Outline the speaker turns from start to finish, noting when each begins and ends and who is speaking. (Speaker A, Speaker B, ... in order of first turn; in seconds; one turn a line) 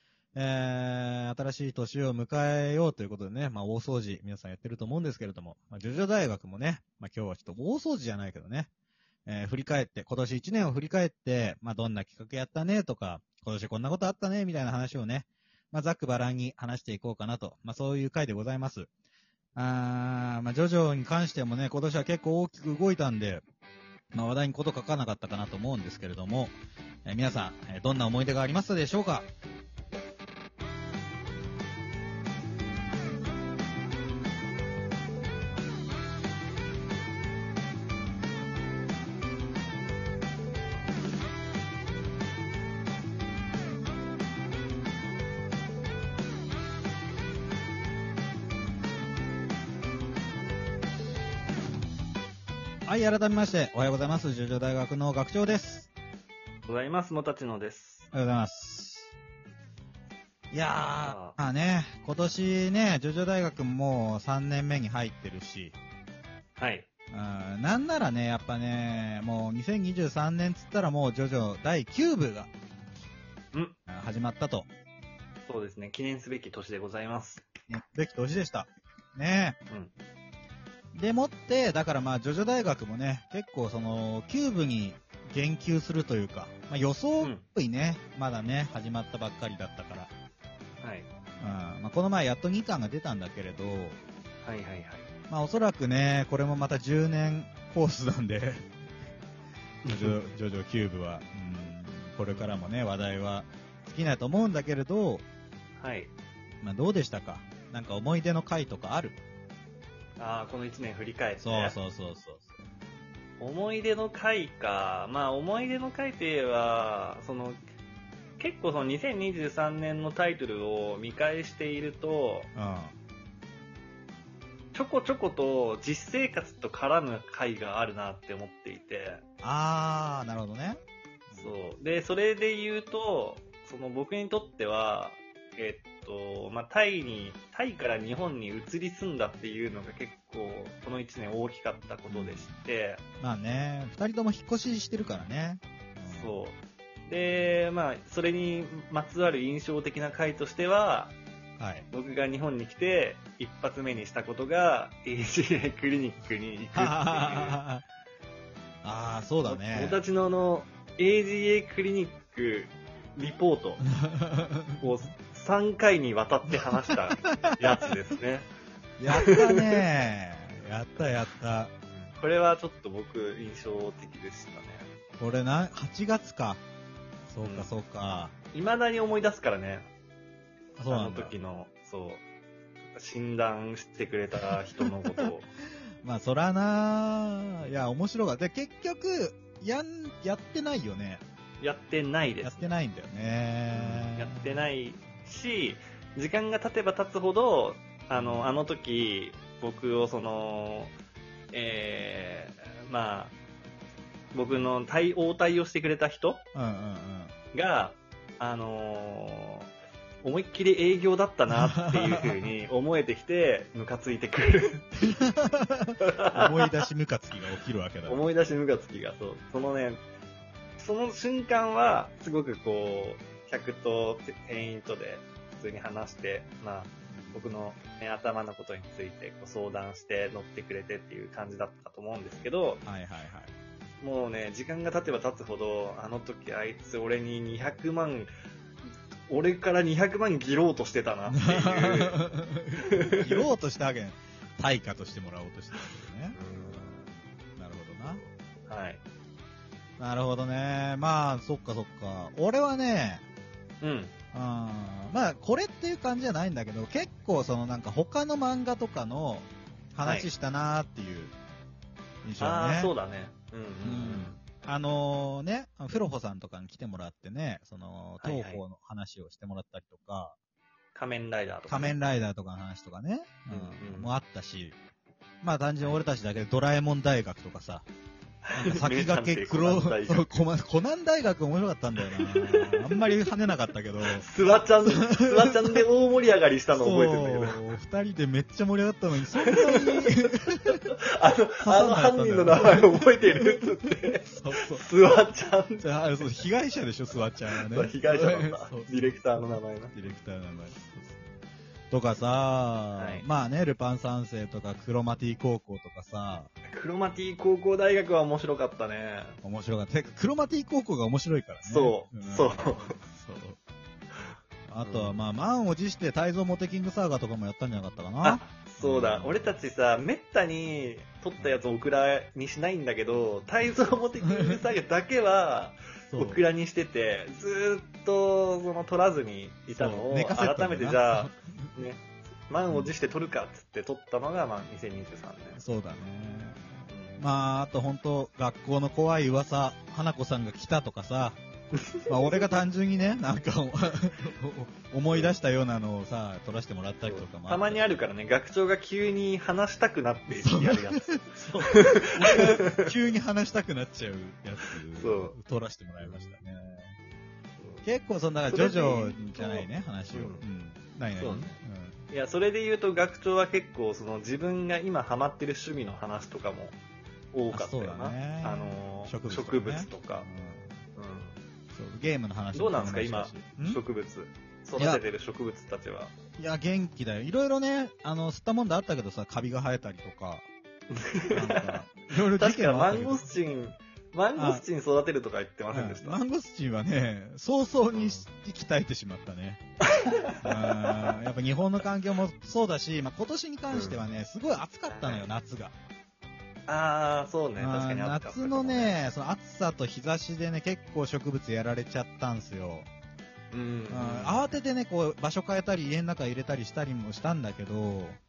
Speaker A: 0.3-8.7
Speaker A: 9.2-18.9
Speaker A: 19.6-23.4
Speaker A: 24.1-29.3
Speaker A: 52.9-55.9
Speaker B: 56.6-58.1
Speaker A: 58.1-59.1
Speaker A: 60.5-65.8
Speaker B: 61.0-61.4
Speaker B: 66.5-66.9
Speaker A: 67.1-72.5
Speaker A: 73.9-74.7
Speaker B: 75.5-77.4
Speaker A: 77.7-79.6
Speaker A: 80.9-90.1
Speaker B: 90.8-91.1
Speaker A: 91.4-94.0
Speaker B: 94.4-95.1
Speaker A: 95.3-98.6
Speaker B: 99.8-100.2
Speaker A: 99.9-105.2
Speaker B: 102.3-102.5
Speaker B: 105.8-106.1
Speaker A: 106.6-109.2
Speaker B: 110.2-111.8
Speaker A: 111.4-112.6
Speaker B: 113.4-117.6
Speaker B: 118.4-122.5
Speaker A: 122.5-122.9
Speaker B: 124.7-129.2
Speaker A: 129.4-131.5
Speaker B: 131.3-143.0
Speaker A: 142.1-142.5
Speaker A: 143.2-146.3
Speaker B: 146.1-151.2
Speaker A: 151.6-151.8
Speaker B: 151.9-157.6
Speaker A: 156.7-157.8
Speaker A: 158.8-160.0
Speaker B: 159.4-163.8
Speaker A: 164.1-164.8
Speaker B: 164.8-168.5
Speaker A: 169.0-171.7
Speaker B: 169.1-169.6
Speaker B: 171.9-174.9
Speaker A: 175.2-176.6
Speaker A: 177.3-178.3
Speaker B: 177.4-177.7
Speaker B: 178.5-179.9
Speaker A: 180.8-181.3
Speaker B: 180.9-182.2
Speaker B: 182.9-185.5
Speaker A: 186.0-191.2
Speaker B: 191.6-192.7
Speaker A: 192.4-194.7
Speaker B: 193.7-200.9
Speaker A: 198.1-198.6
Speaker B: 201.5-203.3
Speaker B: 204.3-206.4
Speaker A: 206.5-207.3
Speaker B: 207.5-209.7
Speaker B: 210.2-215.1
Speaker A: 211.8-212.3
Speaker A: 215.0-218.2
Speaker B: 216.0-216.8
Speaker B: 218.1-220.0
Speaker B: 220.8-232.8
Speaker A: 227.1-227.4
Speaker A: 232.8-233.5
Speaker B: 234.0-238.3
Speaker B: 239.3-242.2
Speaker A: 241.3-246.4
Speaker B: 242.9-243.5
Speaker B: 246.3-247.1
Speaker A: 247.6-248.2
Speaker B: 248.7-249.0
Speaker A: 250.0-253.2
Speaker B: 253.8-254.1
Speaker A: 254.3-261.3
Speaker B: 260.0-260.3
Speaker A: 262.2-262.9
Speaker B: 262.4-264.4
Speaker A: 263.8-270.4
Speaker B: 268.2-268.6
Speaker B: 270.9-272.0
Speaker A: 271.7-274.8
Speaker B: 273.5-274.1
Speaker A: 275.4-277.9
Speaker B: 278.4-280.4
Speaker A: 278.6-284.3
Speaker B: 282.2-282.9
Speaker B: 284.1-287.6
Speaker A: 284.9-285.8
Speaker A: 286.7-290.9
Speaker B: 289.4-290.1
Speaker B: 290.9-296.4
Speaker A: 291.6-293.0
Speaker A: 294.2-294.9
Speaker A: 295.8-301.3
Speaker B: 297.2-299.9
Speaker A: 301.9-306.5
Speaker B: 302.9-303.2
Speaker B: 306.6-309.4
Speaker A: 309.4-313.6
Speaker B: 311.6-313.0
Speaker A: 314.7-319.6
Speaker B: 314.8-315.2
Speaker B: 318.2-335.6
Speaker A: 326.1-326.4
Speaker A: 329.7-331.7
Speaker A: 332.7-332.9
Speaker A: 335.6-341.4
Speaker B: 336.9-337.2
Speaker B: 341.7-342.5
Speaker A: 342.1-348.0
Speaker B: 347.0-352.9
Speaker A: 350.3-356.9
Speaker B: 354.9-355.4
Speaker B: 357.6-357.8
Speaker A: 357.8-362.0
Speaker B: 358.5-360.4
Speaker B: 361.2-361.6
Speaker B: 362.1-366.8
Speaker B: 367.3-370.3
Speaker A: 367.5-370.8
Speaker B: 370.9-371.4
Speaker A: 371.7-373.8
Speaker B: 372.5-376.1
Speaker A: 374.8-375.0
Speaker A: 376.4-380.5
Speaker B: 380.9-381.7
Speaker A: 381.3-383.2
Speaker B: 382.3-386.2
Speaker A: 384.4-384.6
Speaker A: 385.7-389.6
Speaker B: 387.9-388.2
Speaker B: 389.9-391.1
Speaker A: 390.4-395.7
Speaker B: 393.7-394.0
Speaker B: 394.9-395.3
Speaker B: 396.7-399.0
Speaker A: 397.6-402.9
Speaker B: 403.5-404.5
Speaker A: 403.9-408.2